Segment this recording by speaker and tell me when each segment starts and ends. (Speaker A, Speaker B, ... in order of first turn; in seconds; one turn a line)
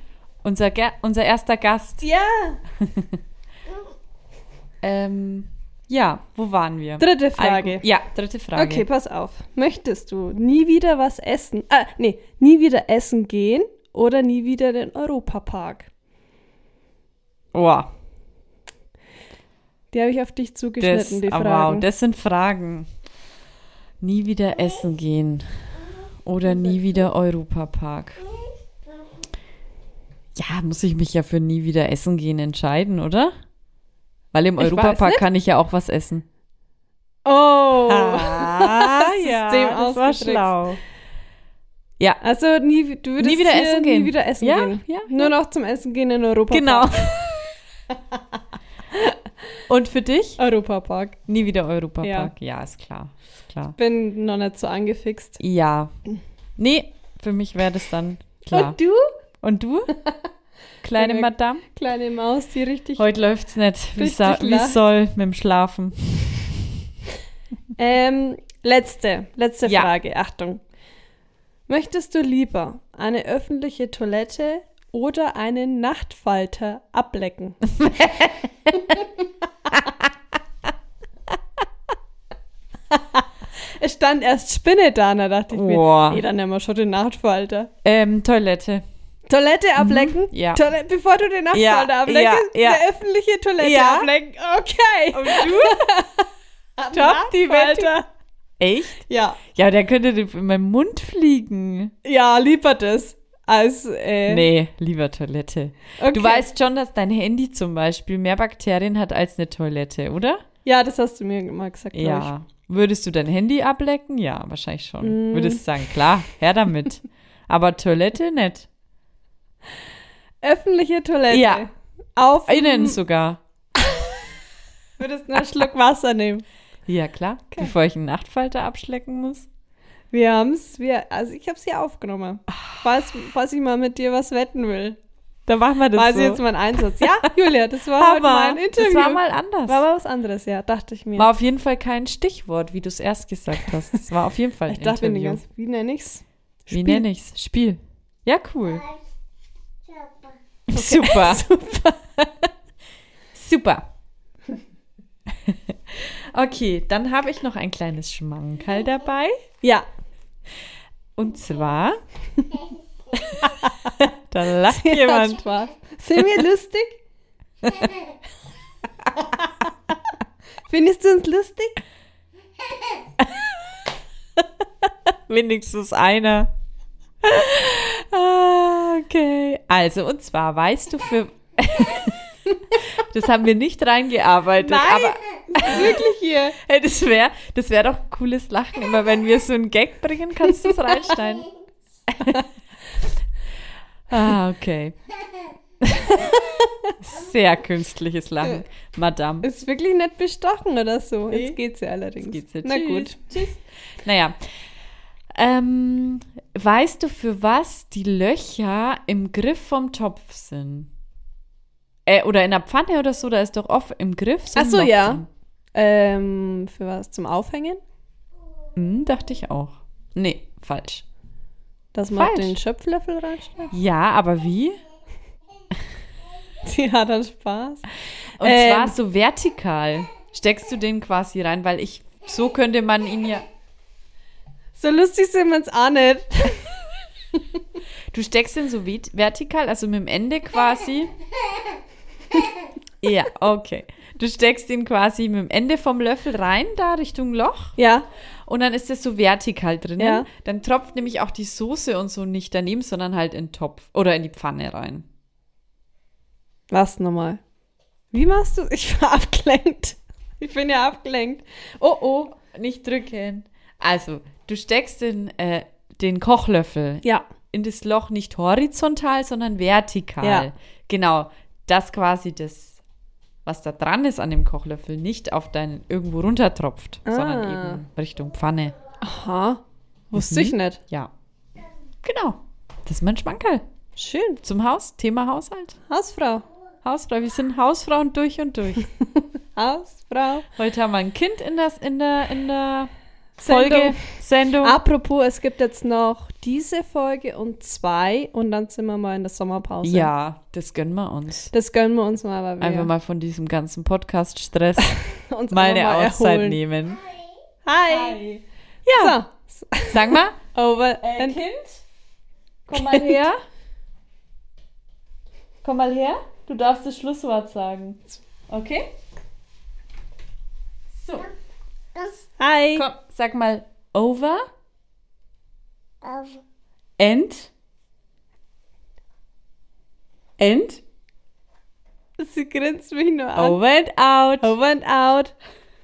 Speaker A: 0.4-2.0
Speaker B: 2.0-2.6
Speaker A: 2.8-3.2
Speaker A: 4.8-8.9
Speaker B: 7.0-7.8
Speaker B: 8.5-15.9
Speaker A: 17.5-17.9
Speaker B: 19.9-21.9
Speaker A: 20.8-22.9
Speaker A: 24.0-25.4
Speaker A: 26.2-28.2
Speaker A: 30.3-33.3
Speaker A: 34.3-36.2
Speaker B: 34.6-35.2
Speaker B: 37.2-40.6
Speaker A: 37.9-40.8
Speaker B: 42.2-47.2
Speaker A: 43.2-45.3
Speaker A: 46.5-47.5
Speaker A: 49.7-50.4
Speaker B: 50.4-51.2
Speaker A: 51.3-53.8
Speaker B: 52.0-52.3
Speaker B: 53.8-55.4
Speaker A: 55.4-55.9
Speaker A: 56.6-58.8
Speaker B: 58.5-59.1
Speaker A: 59.4-60.0
Speaker A: 60.8-61.6
Speaker B: 61.0-63.1
Speaker A: 63.0-66.4
Speaker B: 64.0-64.8
Speaker B: 67.8-70.6
Speaker B: 71.7-78.1
Speaker A: 77.8-78.7
Speaker B: 82.9-87.7
Speaker A: 85.5-86.2
Speaker A: 87.8-88.8
Speaker B: 89.3-96.2
Speaker A: 89.8-90.6
Speaker A: 91.5-92.8
Speaker A: 93.6-94.1
Speaker A: 95.1-95.8
Speaker B: 96.8-98.0
Speaker A: 96.9-98.0
Speaker A: 98.6-101.9
Speaker B: 99.1-99.4
Speaker B: 102.0-104.5
Speaker A: 104.3-110.4
Speaker B: 106.0-106.5
Speaker B: 110.6-112.3
Speaker A: 111.9-118.7
Speaker B: 115.0-115.6
Speaker B: 120.4-123.0
Speaker A: 121.3-121.6
Speaker A: 122.5-123.4
Speaker B: 125.0-126.5
Speaker A: 126.9-129.5
Speaker B: 130.1-135.0
Speaker A: 135.5-136.4
Speaker B: 135.9-141.3
Speaker A: 137.9-139.8
Speaker A: 141.2-145.4
Speaker B: 144.7-147.1
Speaker A: 146.7-148.9
Speaker A: 150.7-151.4
Speaker B: 150.7-152.0
Speaker A: 153.3-153.9
Speaker A: 155.3-159.3
Speaker A: 161.2-162.0
Speaker A: 163.4-165.4
Speaker B: 164.7-167.0
Speaker B: 170.7-171.8
Speaker A: 173.2-173.4
Speaker A: 175.1-176.5
Speaker A: 177.2-182.2
Speaker A: 182.7-191.5
Speaker B: 184.6-186.6
Speaker A: 192.1-192.4
Speaker A: 194.1-195.0
Speaker A: 195.8-199.5
Speaker B: 199.4-203.2
Speaker A: 201.3-201.6
Speaker A: 202.2-204.5
Speaker A: 205.3-210.9
Speaker A: 212.1-215.3
Speaker B: 214.6-215.2
Speaker B: 215.7-217.8
Speaker A: 218.8-221.0
Speaker B: 221.9-223.7
Speaker A: 222.1-222.6
Speaker A: 223.7-224.8
Speaker B: 226.6-227.9
Speaker A: 228.4-233.4
Speaker B: 228.4-228.9
Speaker B: 234.8-236.7
Speaker A: 238.1-241.1
Speaker A: 243.0-247.8
Speaker B: 247.8-248.1
Speaker A: 248.5-255.1
Speaker B: 250.0-250.3
Speaker B: 256.7-257.4
Speaker B: 258.1-262.3
Speaker A: 262.4-272.8
Speaker B: 270.2-270.5
Speaker A: 273.4-278.7
Speaker B: 277.1-277.8
Speaker B: 279.0-280.8
Speaker A: 280.1-281.1
Speaker A: 282.0-283.6
Speaker B: 283.9-284.4
Speaker A: 284.4-285.8
Speaker B: 285.9-286.4
Speaker A: 286.8-288.9
Speaker B: 289.6-290.5
Speaker A: 290.6-292.9
Speaker B: 293.4-294.1
Speaker A: 293.4-294.8
Speaker B: 294.6-300.1
Speaker A: 299.8-301.5
Speaker B: 301.5-302.9
Speaker A: 302.6-307.1
Speaker B: 304.9-306.6
Speaker B: 307.6-308.2
Speaker A: 307.9-309.2
Speaker B: 308.9-311.4
Speaker A: 309.9-310.4
Speaker A: 311.0-311.8
Speaker A: 312.7-313.4
Speaker B: 312.8-313.2
Speaker A: 315.6-318.9
Speaker A: 320.9-321.3
Speaker B: 322.4-322.9
Speaker A: 322.7-324.4
Speaker A: 327.0-327.5
Speaker A: 330.4-330.8
Speaker B: 332.2-333.6
Speaker A: 333.4-334.6
Speaker B: 334.4-335.3